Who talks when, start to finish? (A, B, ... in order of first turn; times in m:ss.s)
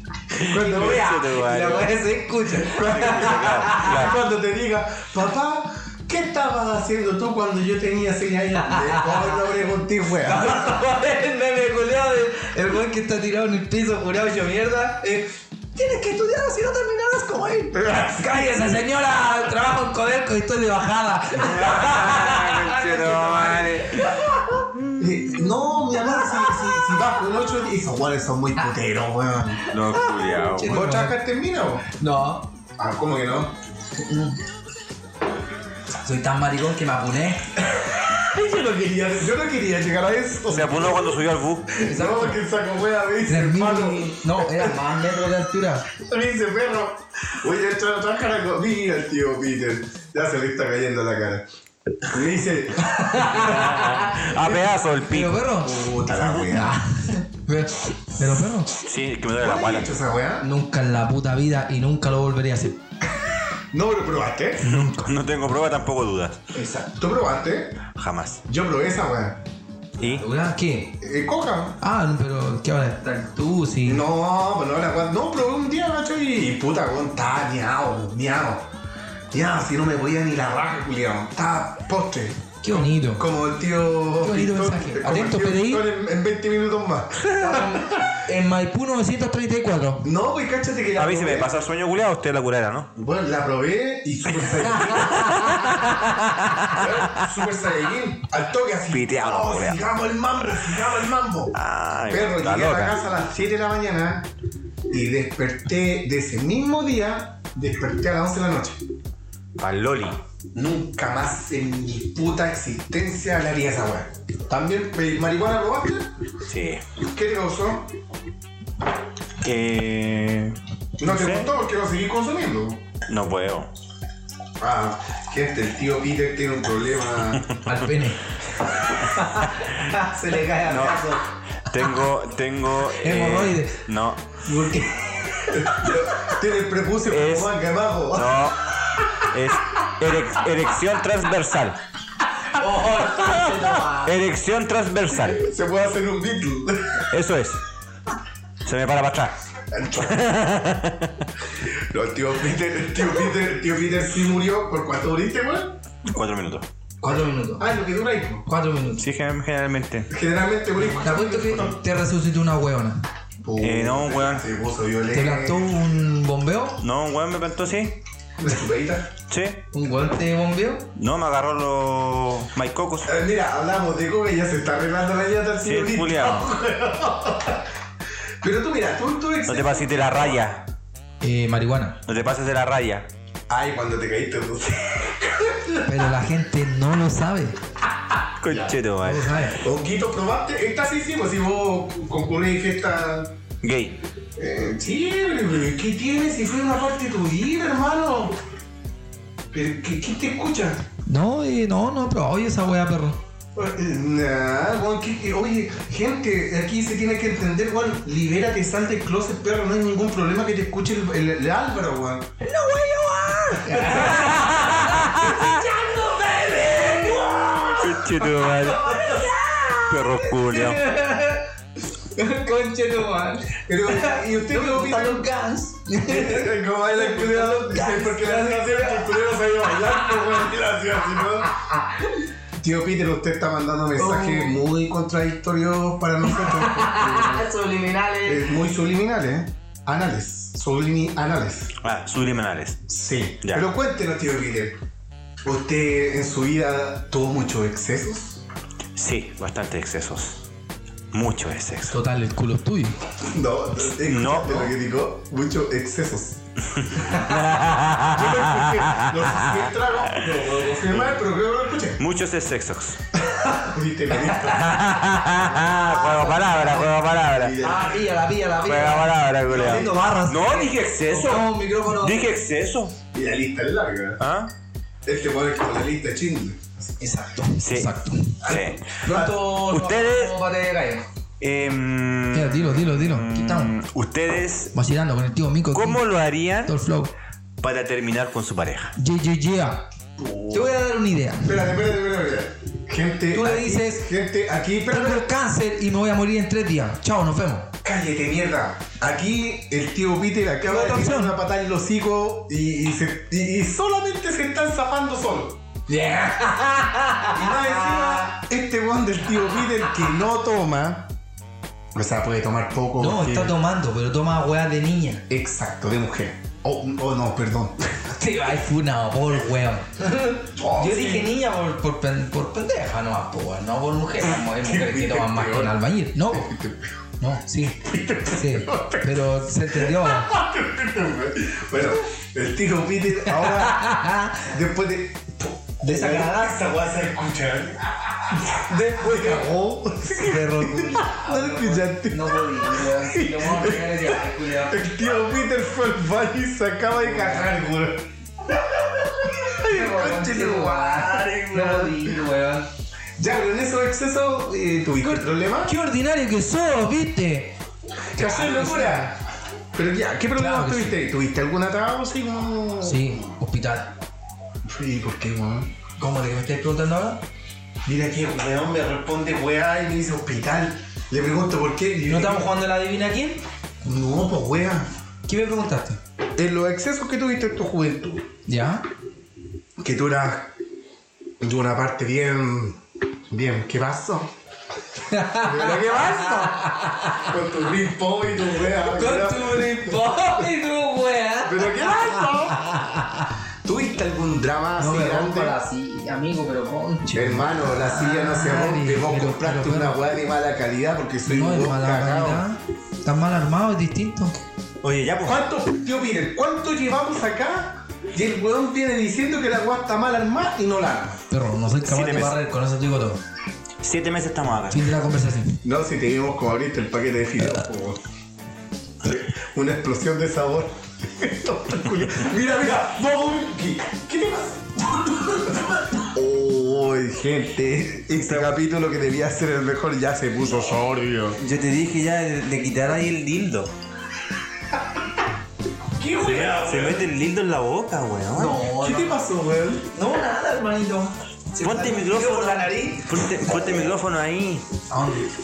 0:00.3-0:02.0 A
0:00.5-0:04.1 B
0:00.6-0:01.0 C
0:02.6-0:04.2 A
0:02.7-0:10.8 C
0:08.6-0:09.4 B
0:10.2-0:24.6 B
0:17.7-0:18.2 C
0:21.4-0:24.1 A
0:25.0-0:29.6 C
0:29.7-0:30.8 A
0:30.0-0:31.2 B
0:30.6-0:31.8 C
0:32.0-0:32.4 B
0:32.8-0:33.6 C
0:34.0-0:34.4 B
0:36.0-0:37.5 B
0:37.8-0:41.1 C
0:40.5-0:41.7 A
0:41.8-0:44.8 C
0:41.8-0:42.4 B
0:43.2-0:45.9 B
0:46.0-0:51.4 C
0:52.0-0:53.5 C
0:52.8-0:53.9 B
0:53.3-0:55.4 A
0:55.1-0:55.7 B
0:55.6-0:56.8 C
0:56.1-0:56.4 A
0:56.5-0:58.7 B
0:58.8-0:59.9 A
0:59.4-1:00.4 C
1:00.4-1:02.8 B
1:03.7-1:04.8 C
1:04.6-1:05.1 B
1:04.7-1:06.4 A
1:06.6-1:07.8 C
1:08.0-1:08.4 A
1:08.5-1:09.4 C
1:10.0-1:10.2 A
1:10.1-1:10.9 B
1:11.0-1:11.8 C
1:11.8-1:14.0 B
1:13.8-1:18.7 C
1:19.3-1:27.8 C
1:22.6-1:23.2 B
1:24.2-1:25.8 B
1:27.4-1:30.1 B
1:30.0-1:31.5 C
1:31.0-1:32.9 A
1:33.0-1:35.2 C
1:34.8-1:35.5 B
1:35.2-1:36.8 A
1:36.7-1:41.5 C
1:38.9-1:39.8 A
1:41.5-1:42.9 A
1:42.1-1:44.3 C
1:44.9-1:48.8 C
1:49.6-1:50.2 A
1:50.5-1:56.1 C
1:56.4-1:56.8 A
1:57.0-1:57.9 C
1:59.4-2:01.5 A
2:01.0-2:02.8 C
2:03.1-2:03.7 A
2:04.6-2:07.4 C
2:07.7-2:08.2 B
2:09.1-2:11.2 B
2:10.7-2:11.2 A
2:11.7-2:14.4 A
2:13.0-2:13.8 B
2:14.4-2:15.1 B
2:15.5-2:18.4 C
2:15.8-2:16.3 B
2:17.1-2:17.5 A
2:18.1-2:18.6 A
2:19.3-2:21.8 A
2:22.5-2:24.2 B
2:23.1-2:23.4 A
2:24.0-2:25.4 A
2:25.3-2:27.1 C
2:27.1-2:27.6 A
2:28.6-2:29.4 A
2:29.7-2:30.2 C
2:30.0-2:31.2 A
2:31.6-2:35.8 C
2:36.1-2:36.7 A
2:37.0-2:37.7 B
2:37.6-2:38.4 C
2:38.4-2:39.0 B
2:39.0-2:40.1 A
2:40.1-2:41.8 C
2:40.8-2:43.0 B
2:43.4-2:45.7 C
2:43.6-2:44.4 A
2:45.1-2:46.8 B
2:46.8-2:48.0 A
2:48.4-2:49.1 C
2:49.3-2:49.6 A
2:49.7-2:50.8 B
2:51.0-2:53.1 A
2:53.0-2:57.6 C
2:55.6-2:56.5 A
2:58.4-3:00.5 C
2:59.5-3:00.6 A
3:01.2-3:02.0 B
3:02.1-3:03.1 A
3:03.5-3:05.8 C
3:05.8-3:07.6 B
3:08.4-3:09.4 A
3:09.0-3:09.6 B
3:09.6-3:13.3 C
3:13.6-3:14.0 A
3:14.4-3:18.4 C
3:19.5-3:20.8 C
3:21.1-3:23.2 B
3:23.6-3:32.3 C
3:32.4-3:41.4 B
3:34.1-3:35.4 A
3:37.8-3:39.2 A
3:39.9-3:40.8 A
3:42.0-3:50.4 B
3:43.7-3:45.3 C
3:46.0-3:51.5 C
3:51.4-3:52.0 B
3:52.6-3:57.5 C
3:54.0-3:54.6 B
3:56.3-3:58.5 B
3:58.2-4:01.7 C
4:01.8-4:02.8 A
4:02.9-4:04.8 C
4:05.4-4:08.4 C
4:09.0-4:10.4 A
4:11.1-4:12.0 A
4:11.9-4:13.0 B
4:13.2-4:16.4 C
4:14.0-4:14.7 A
4:16.8-4:19.6 A
4:17.1-4:17.4 B
4:18.1-4:22.0 C
4:22.0-4:23.0 A
4:23.3-4:24.6 C
4:24.3-4:24.5 B
4:24.4-4:27.6 A
4:25.8-4:26.9 B
4:27.3-4:28.0 C
4:27.6-4:32.3 B
4:28.6-4:33.0 A
4:33.1-4:34.2 C
4:34.2-4:34.5 A
4:35.0-4:36.9 C
4:37.0-4:38.4 B
4:37.6-4:40.3 A
4:38.4-4:39.2 C
4:39.0-4:41.1 B
4:41.4-4:44.7 A
4:42.3-4:43.7 B
4:44.7-4:46.0 B
4:45.7-4:46.8 A
4:46.6-4:47.1 B
4:47.6-4:48.9 A
4:49.0-4:49.8 B
4:50.2-4:50.7 C
4:50.5-4:51.7 B
4:51.4-4:55.3 C
4:53.3-4:54.1 B
4:54.9-4:57.7 B
4:57.8-5:05.6 C
5:00.6-5:01.4 B
5:05.9-5:08.3 B
5:07.3-5:11.1 C
5:11.9-5:13.6 C
5:13.0-5:15.2 B
5:15.3-5:17.8 C
5:18.1-5:26.5 B
5:20.6-5:21.3 C
5:24.5-5:25.8 C
5:26.3-5:26.9 C
5:27.2-5:30.3 B
5:27.8-5:33.9 C
5:33.3-5:34.4 B
5:34.4-5:48.1 C
5:35.8-5:36.6 B
5:38.7-5:44.9 B
5:47.0-5:47.5 B
5:48.6-5:52.2 C
5:49.6-5:52.7 B
5:53.2-5:55.7 C
5:55.0-5:57.5 B
5:58.1-5:59.2 C
5:58.2-5:59.1 B
5:59.7-6:03.3 C
6:00.4-6:01.0 B
6:02.8-6:03.9 B
6:04.6-6:05.7 C
6:06.0-6:07.2 B
6:07.8-6:12.5 C
6:12.1-6:13.4 B
6:13.8-6:14.9 C
6:15.3-6:16.0 B
6:16.4-6:18.3 C
6:18.5-6:18.8 B
6:19.8-6:20.5 C
6:21.4-6:22.8 C
6:23.3-6:24.3 C
6:25.1-6:27.3 B
6:25.4-6:30.0 C
6:28.7-6:33.3 B
6:31.4-6:32.6 C
6:33.6-6:35.6 C
6:34.8-6:40.0 B
6:37.1-6:42.4 C
6:41.3-6:44.4 B
6:44.8-6:45.4 A
6:45.2-6:51.2 C
6:51.3-6:53.2 B
6:51.8-6:52.4 A
6:53.8-6:54.8 A
6:54.7-6:55.6 B
6:55.6-6:58.0 C
6:59.0-7:11.4 C
7:08.2-7:08.6 A
7:11.4-7:13.7 A
7:16.0-7:17.1 C
7:16.4-7:18.6 A
7:18.3-7:19.3 B
7:18.8-7:19.9 C
7:19.9-7:23.0 B
7:21.6-7:24.7 A
7:24.9-7:25.2 B